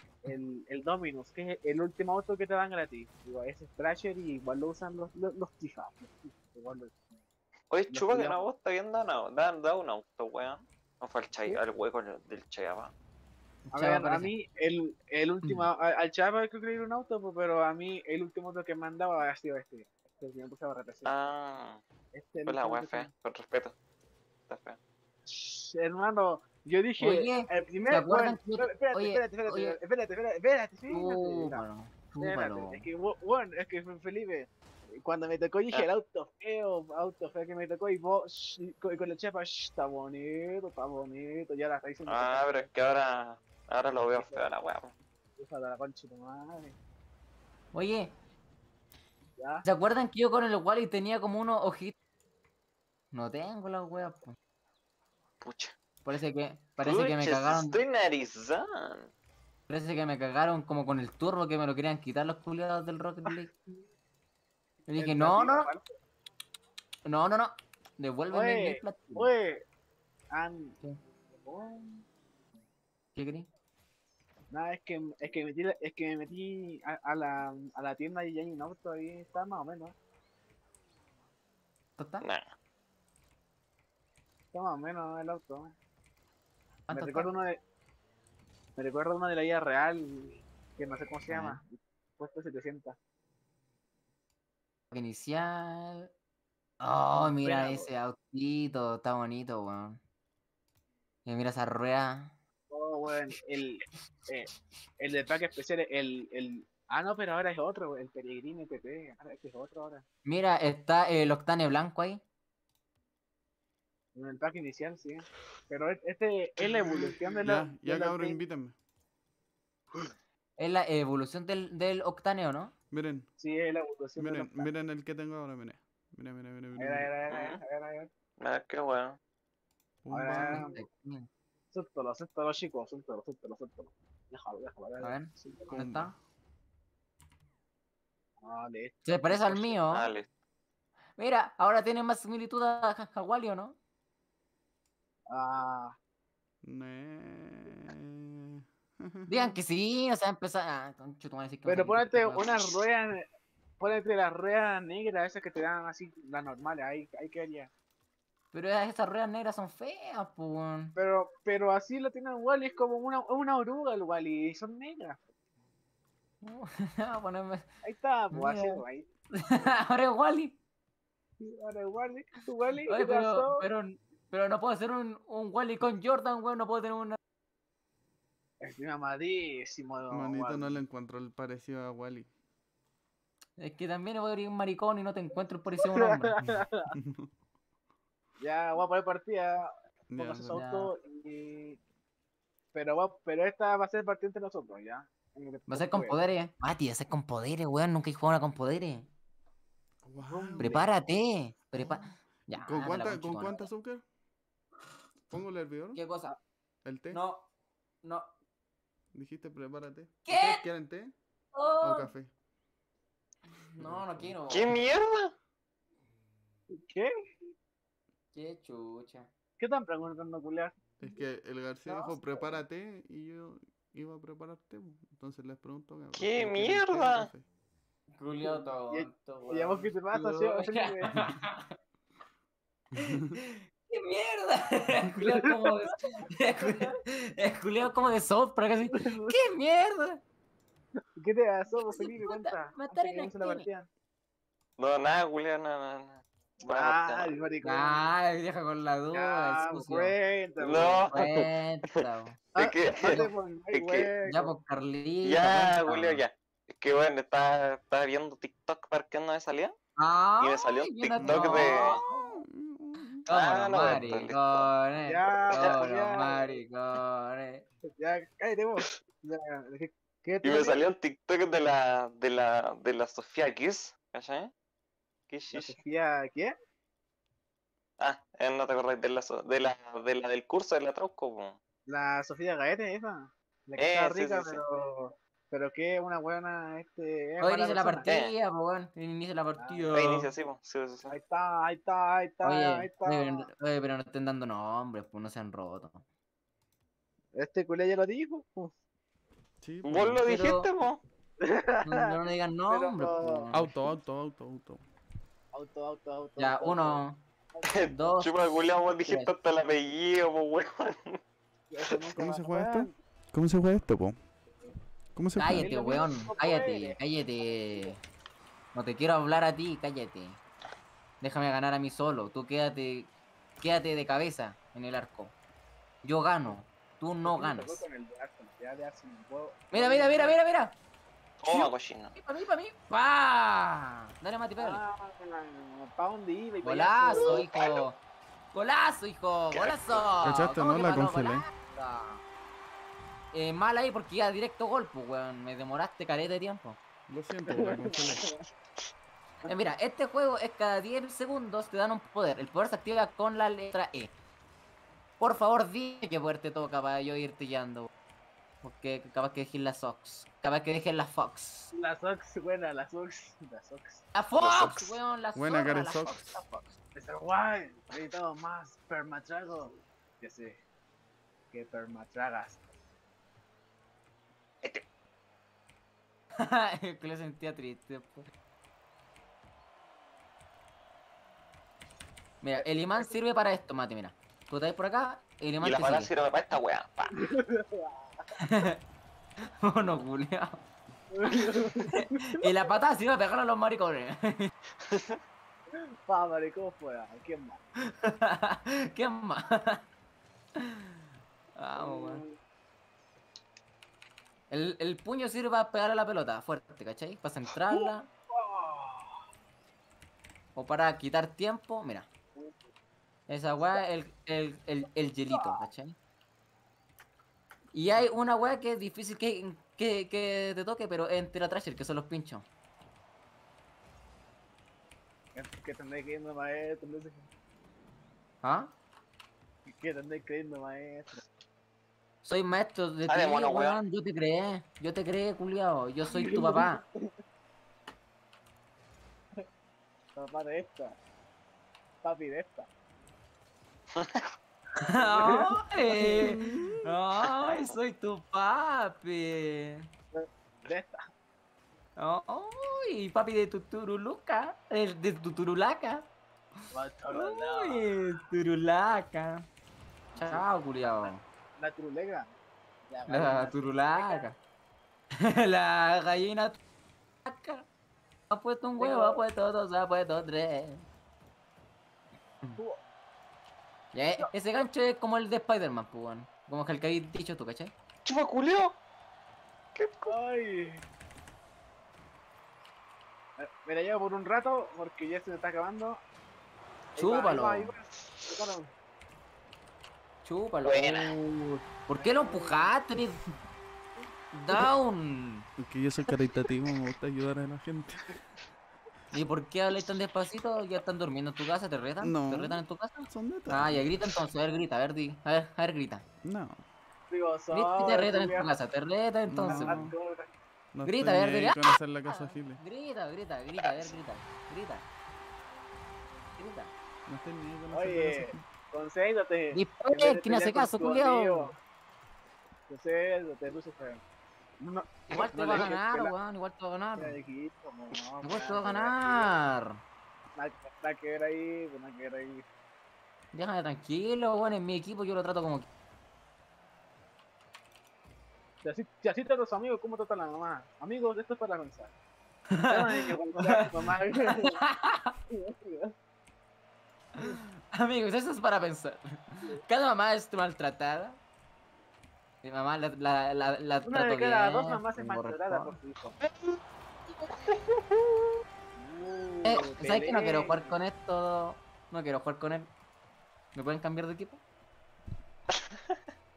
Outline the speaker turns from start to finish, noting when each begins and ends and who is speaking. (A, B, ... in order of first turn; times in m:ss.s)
0:00.2-0:07.1 A
0:07.7-0:12.9 B
0:07.9-0:08.4 A
0:13.7-0:14.3 C
0:13.7-0:21.1 A
0:15.4-0:15.7 C
0:21.0-0:21.8 B
0:22.1-0:23.1 A
0:22.5-0:23.8 B
0:24.5-0:24.8 B
0:25.3-0:31.6 A
0:27.0-0:29.8 C
0:30.9-0:32.9 C
0:32.2-0:42.7 A
0:42.1-0:44.9 B
0:44.2-0:44.5 A
0:45.4-0:46.8 A
0:47.7-0:48.1 C
0:49.4-0:49.6 A
0:49.6-0:51.9 C
0:53.1-0:54.4 C
0:55.4-0:55.7 B
0:56.0-0:57.8 C
0:56.8-0:59.1 B
0:59.7-1:03.5 C
1:04.9-1:05.7 C
1:05.0-1:06.0 A
1:07.1-1:09.3 C
1:08.3-1:09.6 A
1:10.3-1:10.8 A
1:11.4-1:12.1 A
1:13.2-1:13.5 C
1:14.5-1:20.0 A
1:22.0-1:22.3 C
1:24.5-1:25.7 A
1:26.9-1:27.3 C
1:26.9-1:27.6 A
1:28.8-1:33.0 A
1:31.3-1:31.6 C
1:34.9-1:36.1 C
1:36.8-1:40.0 C
1:37.4-1:37.9 A
1:41.3-1:42.3 C
1:42.7-1:50.0 A
1:50.2-1:52.2 C
1:54.2-1:58.4 A
1:57.4-1:58.8 D
2:00.6-2:02.7 C
2:02.9-2:03.3 D
2:03.4-2:04.7 A
2:04.2-2:07.1 D
2:06.8-2:08.1 A
2:07.3-2:07.6 B
2:08.4-2:09.2 B
2:10.0-2:10.7 D
2:10.1-2:10.8 A
2:10.3-2:11.3 C
2:11.7-2:15.7 A
2:15.0-2:16.1 C
2:15.7-2:16.1 D
2:18.4-2:19.8 A
2:19.0-2:20.1 C
2:19.9-2:20.3 B
2:21.2-2:23.8 C
2:25.3-2:26.0 A
2:26.6-2:29.6 D
2:29.3-2:32.6 C
2:31.7-2:33.3 A
2:33.8-2:37.7 A
2:38.5-2:41.0 C
2:41.0-2:45.2 A
2:46.4-2:47.6 C
2:47.8-2:49.1 A
2:48.3-2:48.8 C
2:49.3-2:50.6 C
2:51.4-2:53.7 A
2:52.9-2:57.2 C
2:58.6-3:00.8 A
3:00.1-3:02.3 D
3:03.6-3:06.4 C
3:05.8-3:06.9 A
3:06.9-3:07.3 D
3:08.4-3:11.8 A
3:10.1-3:10.6 D
3:10.5-3:10.9 C
3:12.7-3:16.2 A
3:15.7-3:19.1 C
3:20.0-3:20.9 D
3:20.2-3:20.9 A
3:20.6-3:23.7 C
3:21.8-3:24.0 D
3:25.3-3:26.0 D
3:26.0-3:26.3 C
3:26.8-3:27.2 D
3:27.1-3:27.5 C
3:28.0-3:28.3 C
3:29.1-3:31.2 D
3:30.2-3:30.6 C
3:31.6-3:32.1 C
3:31.8-3:32.3 D
3:33.6-3:34.8 C
3:33.8-3:34.4 D
3:34.5-3:35.3 B
3:36.7-3:37.1 A
3:38.3-3:39.3 C
3:39.6-3:40.8 A
3:41.0-3:47.5 D
3:41.9-3:42.5 C
3:46.2-3:47.3 B
3:48.2-3:51.8 C
3:48.4-3:51.2 A
3:53.0-4:00.2 C
3:55.1-3:55.6 A
3:56.6-3:56.9 A
3:58.9-3:59.4 A
4:01.2-4:03.9 A
4:01.8-4:03.7 C
4:04.8-4:07.3 B
4:06.6-4:08.1 A
4:07.6-4:10.2 C
4:09.1-4:11.1 A
4:10.6-4:11.5 B
4:11.1-4:12.4 C
4:12.6-4:14.1 B
4:12.6-4:14.5 A
4:14.3-4:16.2 C
4:15.2-4:19.8 B
4:20.0-4:22.4 C
4:20.4-4:22.0 B
4:21.2-4:23.2 D
4:21.7-4:22.0 A
4:23.3-4:27.6 C
4:23.3-4:24.7 B
4:25.1-4:26.6 A
4:25.5-4:25.8 B
4:28.0-4:30.8 A
4:30.4-4:34.5 B
4:35.3-4:35.8 B
4:35.5-4:36.5 A
4:38.0-4:41.6 B
4:41.9-4:48.1 A
4:43.8-4:44.6 B
4:47.4-4:50.3 C
4:48.1-4:48.4 B
4:49.6-4:50.2 A
4:49.9-4:51.1 B
4:51.1-4:53.5 A
4:52.4-4:56.0 C
4:57.4-4:58.7 A
4:59.6-5:00.2 D
4:59.8-5:01.0 B
5:00.2-5:00.7 C
5:01.4-5:02.2 A
5:01.8-5:03.7 C
5:02.7-5:03.5 A
5:03.5-5:04.8 D
5:05.5-5:07.9 A
5:06.4-5:07.2 C
5:07.6-5:11.2 B
5:07.9-5:09.3 C
5:11.7-5:13.0 A
5:12.2-5:14.2 D
5:15.2-5:15.7 D
5:15.4-5:18.0 C
5:15.5-5:18.0 A
5:18.7-5:20.4 C
5:21.2-5:25.3 C
5:26.0-5:27.8 C
5:27.2-5:30.4 A
5:29.7-5:30.8 C
5:31.4-5:32.1 B
5:31.5-5:34.8 C
5:34.6-5:37.5 A
5:36.6-5:38.0 C
5:37.1-5:37.8 B
5:38.5-5:42.2 C
5:39.5-5:40.1 B
5:40.2-5:41.4 D
5:43.3-5:46.8 C
5:47.1-5:48.3 D
5:47.5-5:48.4 A
5:49.4-5:54.1 C
5:55.2-5:57.9 C
5:58.6-6:01.7 C
6:01.7-6:04.0 A
6:04.2-6:06.8 C
6:04.4-6:04.8 D
6:05.4-6:06.4 D
6:07.0-6:10.6 A
6:11.5-6:12.7 A
6:16.4-6:18.3 C
6:22.4-6:26.1 C
6:25.6-6:27.3 B
6:27.1-6:28.2 A
6:28.4-6:28.8 C
6:29.6-6:30.6 C
6:31.1-6:32.4 A
6:31.5-6:34.5 C
6:34.8-6:35.2 B
6:35.8-6:37.6 A
6:37.8-6:39.8 C
6:40.6-6:40.9 C
6:41.6-6:42.2 C
6:41.8-6:42.4 A
6:44.5-6:48.1 C
6:47.7-6:49.2 A
6:50.6-6:52.1 C
6:53.3-6:56.0 C
6:53.6-6:53.9 A
6:55.3-6:55.7 A
6:57.7-7:02.5 C
7:05.4-7:07.3 A
7:08.4-7:08.7 C
7:09.7-7:11.3 A
7:12.2-7:16.8 C
7:13.1-7:13.8 B
7:16.1-7:17.1 A
7:20.2-7:21.0 A
7:22.0-7:22.7 A
7:24.0-7:24.3 B
7:24.8-7:29.9 C
7:24.9-7:26.3 A
7:26.0-7:26.9 D
7:30.1-7:31.0 A
7:32.0-7:36.1 C
7:36.7-7:37.9 A
7:37.1-7:39.4 C
7:40.1-7:42.3 A
7:40.2-7:41.2 C
7:42.9-7:44.2 A
7:43.1-7:44.4 C
7:45.2-7:46.6 C
7:47.2-7:47.6 C
7:48.3-7:50.8 C
7:48.8-7:49.2 A
7:53.9-7:57.7 C
7:58.0-7:58.8 B
7:59.8-8:00.2 B
8:00.1-8:00.8 A
8:03.4-8:06.0 A
8:07.0-8:07.7 C
8:07.0-8:08.7 A
8:10.2-8:13.2 C
8:10.6-8:11.2 B
8:12.0-8:12.7 A
8:14.3-8:15.5 C
8:15.6-8:18.2 D
8:19.1-8:26.0 C
8:22.0-8:23.9 D
8:26.2-8:26.6 D
8:27.1-8:28.5 A
8:27.5-8:29.8 C
8:29.3-8:30.0 D
8:29.5-8:30.3 A
8:30.7-8:32.6 D
8:30.8-8:34.8 C
8:36.4-8:36.7 C
8:37.1-8:38.4 D
8:37.7-8:41.6 A
8:39.5-8:41.5 C
8:42.7-8:44.0 A
8:44.6-8:46.1 A
8:45.1-8:47.2 C
8:47.0-8:49.4 A
8:48.2-8:49.8 C
8:50.4-8:52.4 A
8:53.3-8:55.7 C
8:58.6-9:01.9 A
9:02.5-9:03.7 C
9:02.7-9:04.6 A
9:04.2-9:05.2 C
9:05.3-9:05.9 A
9:07.2-9:11.2 C
9:12.4-9:15.8 C
9:13.8-9:16.2 A
9:16.2-9:16.6 B
9:17.2-9:18.3 B
9:18.8-9:20.8 A
9:19.4-9:22.7 C
9:23.6-9:24.4 C
9:25.5-9:26.0 B